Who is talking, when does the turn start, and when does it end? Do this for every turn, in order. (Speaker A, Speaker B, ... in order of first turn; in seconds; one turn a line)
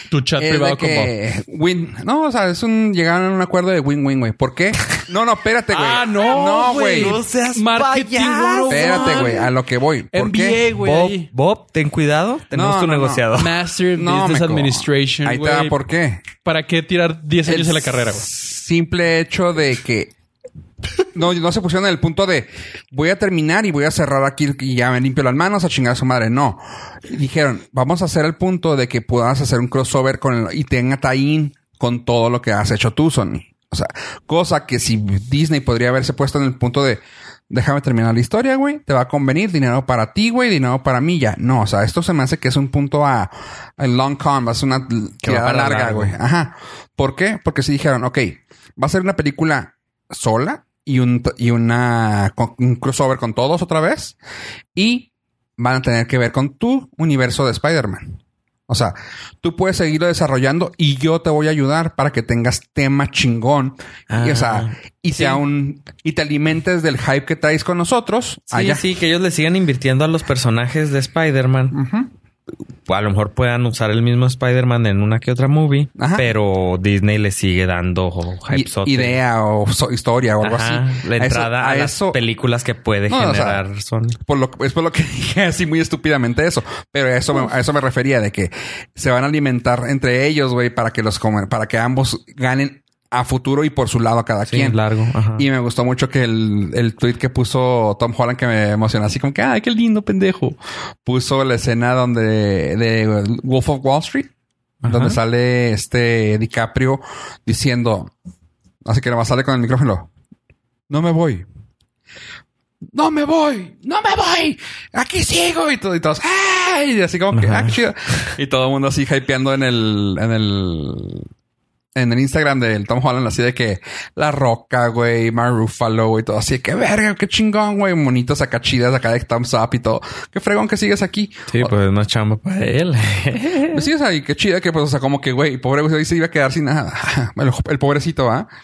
Speaker A: 0.1-1.1
Speaker B: 0.4-7.2
Speaker A: 5.7-9.4
Speaker C: 6.3-9.4
Speaker B: 8.7-10.6
Speaker A: 10.1-11.3
Speaker C: 10.8-13.6
Speaker B: 12.5-13.3
Speaker A: 13.3-15.8
Speaker B: 13.9-16.3
Speaker A: 16.4-18.2
Speaker B: 17.4-20.1
Speaker B: 21.1-54.2
Speaker C: 45.2-46.1
Speaker B: 54.7-58.2
Speaker B: 58.7-68.8
Speaker C: 64.1-65.4
Speaker C: 68.5-71.8
Speaker B: 71.7-72.1
Speaker C: 72.8-79.2
Speaker B: 76.0-76.3
Speaker B: 78.5-82.2
Speaker C: 80.4-84.2
Speaker B: 83.1-83.6
Speaker B: 84.2-94.8
Speaker C: 94.5-95.5
Speaker B: 95.3-104.3
Speaker C: 104.8-105.2
Speaker B: 104.8-108.1
Speaker B: 108.8-110.1
Speaker B: 110.9-111.5
Speaker B: 112.9-121.3
Speaker C: 117.3-118.3
Speaker B: 121.9-131.7
Speaker C: 131.5-133.8
Speaker B: 133.7-138.5